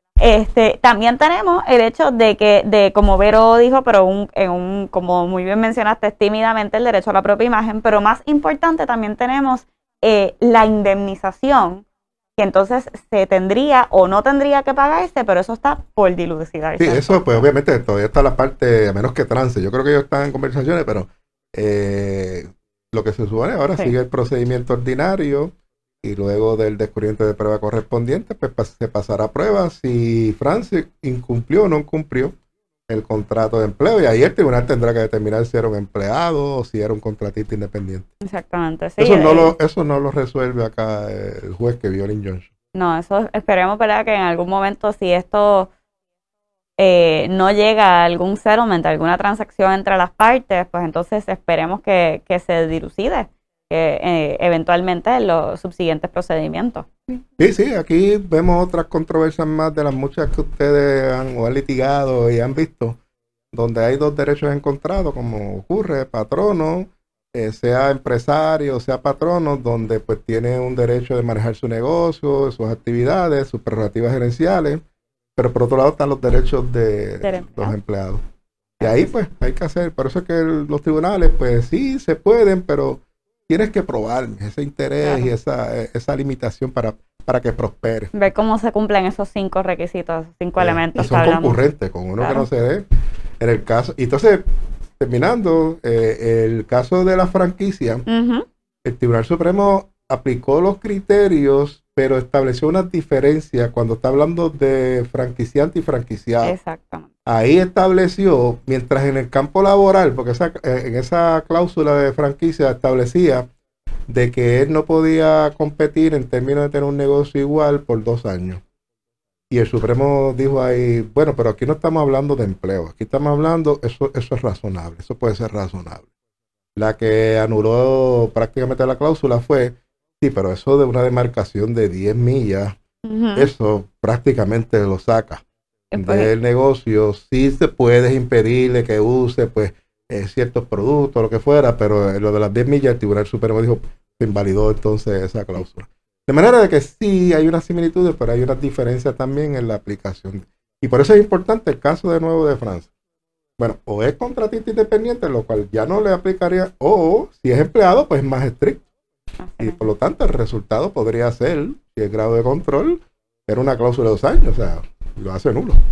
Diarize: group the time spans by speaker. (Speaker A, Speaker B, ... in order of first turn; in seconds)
Speaker A: 0.2-11.8, 12.4-17.5, 38.2-39.5, 42.7-45.7, 46.8-56.9, 77.2-77.8, 85.0-85.3, 88.1-91.6, 92.2-92.5, 98.1-98.5, 106.4-107.1, 133.0-133.5, 135.9-136.3, 159.4-159.9
Speaker B: 16.8-32.3, 32.9-38.1, 39.0-42.5, 57.4-63.0, 63.5-74.8, 75.3-78.2, 78.8-88.1, 90.6-92.8, 93.4-94.4, 95.0-98.0, 98.8-106.5, 107.2-113.5, 114.1-118.6, 119.5-126.0, 126.8-132.8, 133.3-135.4, 136.0-152.9, 153.6-158.8, 159.6-165.8